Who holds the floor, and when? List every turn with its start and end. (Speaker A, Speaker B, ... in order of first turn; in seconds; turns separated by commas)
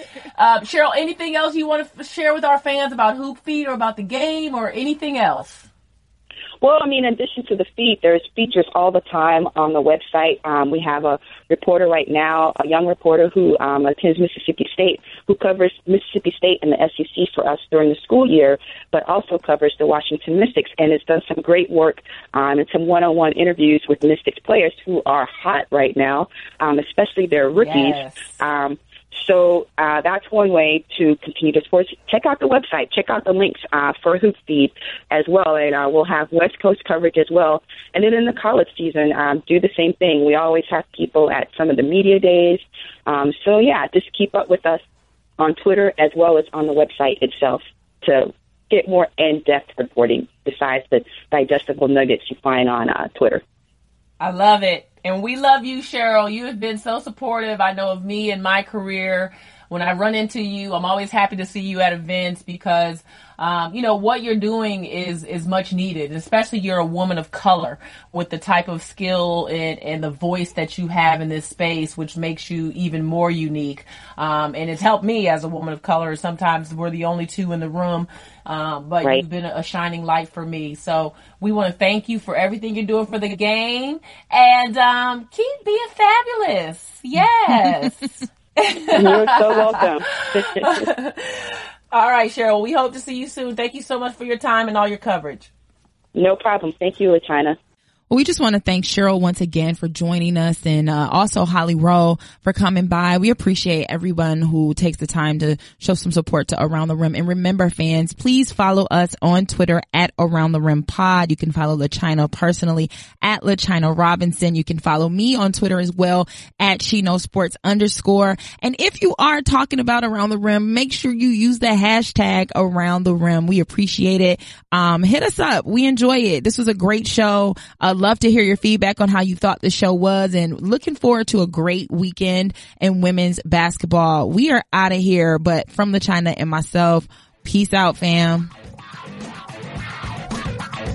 Speaker A: 0.3-5.7, Speaker B: 6.6-44.8, Speaker A: 27.6-28.3, Speaker B: 45.4-53.4, Speaker A: 54.2-95.5, Speaker B: 88.9-90.9, Speaker B: 96.1-97.6, Speaker C: 98.1-138.5